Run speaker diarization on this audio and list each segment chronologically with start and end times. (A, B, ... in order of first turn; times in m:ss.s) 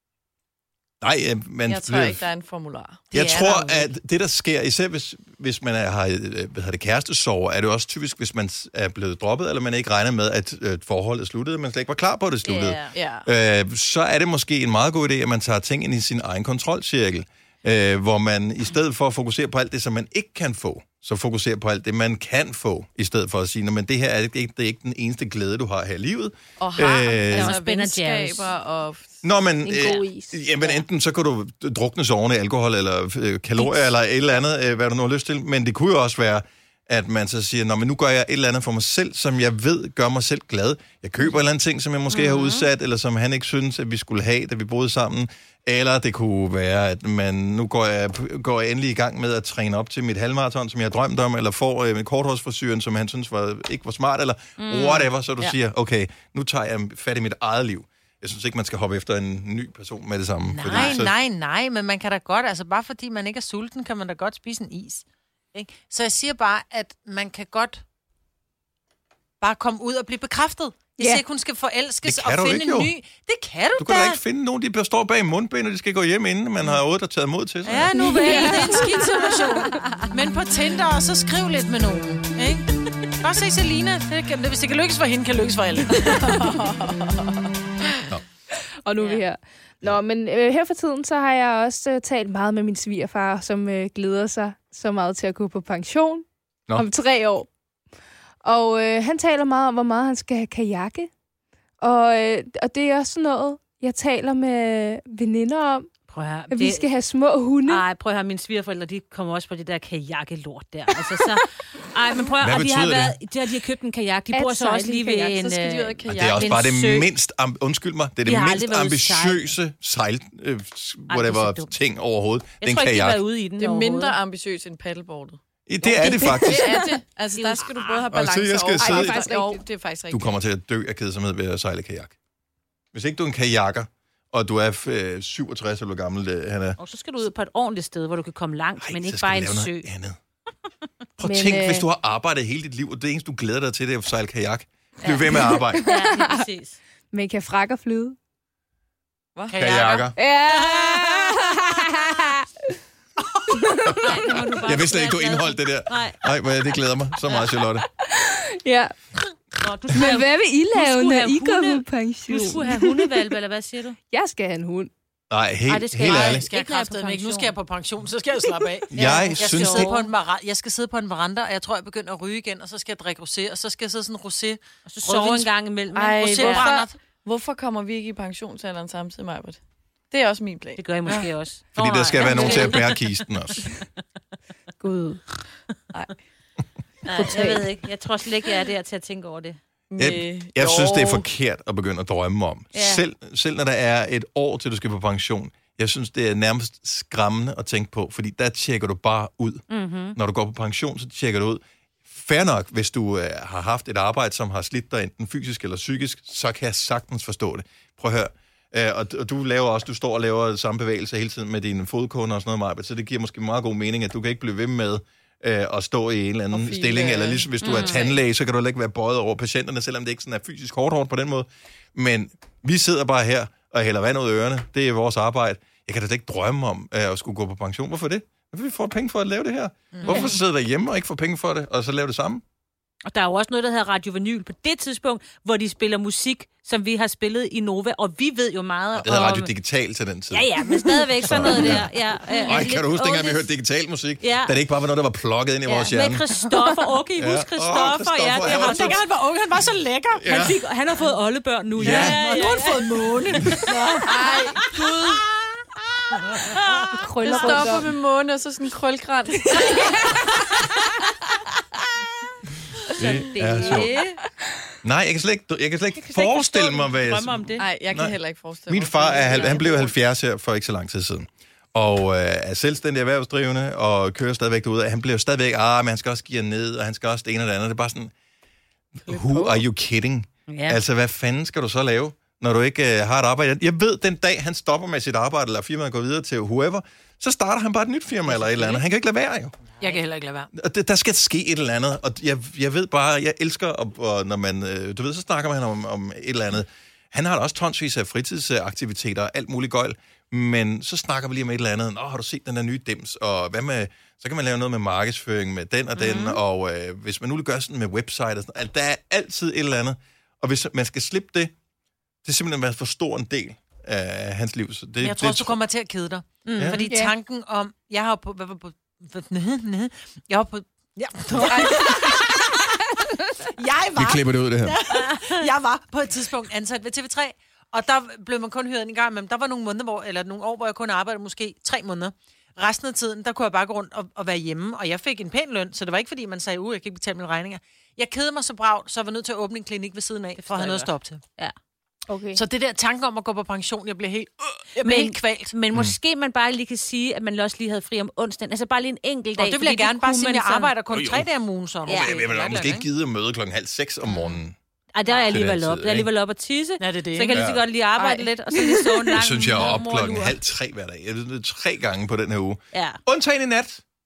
0:01.0-0:02.2 A
0:01.6-0:03.1 B
0:03.1-0:03.9 C
0:03.1-0:27.6 A
0:12.4-0:12.9 D
0:12.9-0:13.3 B
0:26.6-0:29.2 B
0:27.3-0:28.5 D
0:29.2-1:01.1 A
0:29.6-0:30.4 E
0:42.1-0:42.7 D
0:54.6-0:55.1 D
1:00.5-1:07.8 C
1:09.4-1:14.2 C
1:12.0-1:12.9 A
1:13.8-1:17.9 A
1:17.6-1:26.5 C
1:17.9-1:20.0 D
1:18.0-1:19.2 E
1:26.1-1:27.5 B
1:28.8-1:37.5 E
1:38.4-1:41.1 E
1:41.8-1:45.9 E
1:46.1-1:46.9 D
1:46.5-1:47.8 E
1:47.6-1:57.1 D
1:52.4-1:53.2 A
1:54.3-1:55.4 E
1:55.4-1:56.7 B
1:56.1-2:03.2 A
1:58.2-1:59.5 D
2:01.1-2:01.7 D
2:02.6-2:04.2 D
2:03.6-2:10.4 B
2:05.7-2:06.9 A
2:06.1-2:06.9 E
2:07.3-2:08.0 D
2:08.1-2:09.3 A
2:08.8-2:09.6 E
2:10.1-2:12.1 A
2:12.9-2:16.8 A
2:16.8-2:19.8 D
2:18.8-2:20.2 A
2:21.2-2:25.8 A
2:21.2-2:21.9 E
2:25.0-2:26.8 D
2:25.3-2:26.4 E
2:27.1-2:28.2 E
2:29.3-2:29.9 B
2:29.5-2:30.1 C
2:29.6-2:30.2 A
2:30.2-2:32.5 E
2:30.8-2:31.1 C
2:33.5-2:34.4 E
2:34.0-2:36.2 D
2:34.6-2:37.8 A
2:38.0-2:38.9 E
2:39.6-2:44.0 D
2:39.9-2:43.3 E
2:44.1-2:44.9 E
2:45.3-2:46.5 A
2:45.7-2:47.5 D
2:46.0-2:55.5 C
2:48.9-2:49.9 A
2:48.9-2:50.1 D
2:54.8-2:56.8 D
2:55.9-2:59.6 B
2:56.2-2:57.0 C
3:00.1-3:01.2 B
3:00.8-3:03.0 D
3:01.8-3:03.6 A
3:02.4-3:02.7 B
3:04.8-3:05.2 E
3:07.0-3:09.6 D
3:07.2-3:07.6 B
3:07.3-3:07.5 E
3:09.9-3:11.2 B
3:10.0-3:19.6 A
3:12.7-3:13.0 D
3:19.7-3:20.2 D
3:20.1-3:52.4 A
3:36.5-3:37.5 B
3:37.6-3:38.1 D
3:49.9-3:50.3 C
3:53.0-3:59.5 D
3:59.0-4:01.9 A
4:00.3-4:03.5 D
4:02.4-4:06.2 A
4:04.2-4:04.6 D
4:05.6-4:09.0 D
4:07.2-4:09.0 A
4:08.4-4:11.1 C
4:10.2-4:10.6 A
4:10.3-4:15.2 D
4:11.8-4:12.2 A
4:11.8-4:15.2 C
4:16.3-4:17.8 D
4:16.9-4:17.9 E
4:17.2-4:20.2 B
4:23.0-4:24.0 A
4:23.0-4:24.2 D
4:24.8-4:38.1 A
4:26.0-4:27.7 D
4:27.6-4:30.0 B
4:39.0-4:49.6 A
4:39.1-4:39.5 E
4:40.5-4:40.8 D
4:48.4-4:48.7 C
4:49.8-4:50.5 C
4:50.5-5:11.5 A
5:06.0-5:06.4 D
5:12.2-5:15.6 A
5:15.0-5:22.8 C
5:16.4-5:16.9 D
5:16.6-5:16.8 A
5:16.9-5:17.1 E
5:21.4-5:22.0 D
5:23.4-5:41.2 C
5:24.0-5:24.8 A
5:24.9-5:25.5 D
5:40.4-5:41.5 D
5:42.1-5:42.4 E
5:42.3-5:45.5 C
5:44.8-5:50.7 D
5:49.4-5:52.8 C
5:50.9-5:51.3 A
5:51.8-5:54.5 A
5:51.8-5:52.7 D
5:54.9-6:00.4 D
5:55.3-5:56.1 A
5:56.8-5:57.4 C
5:57.3-5:57.7 A
5:58.0-5:59.1 E
5:59.2-6:03.8 A
6:02.7-6:03.0 D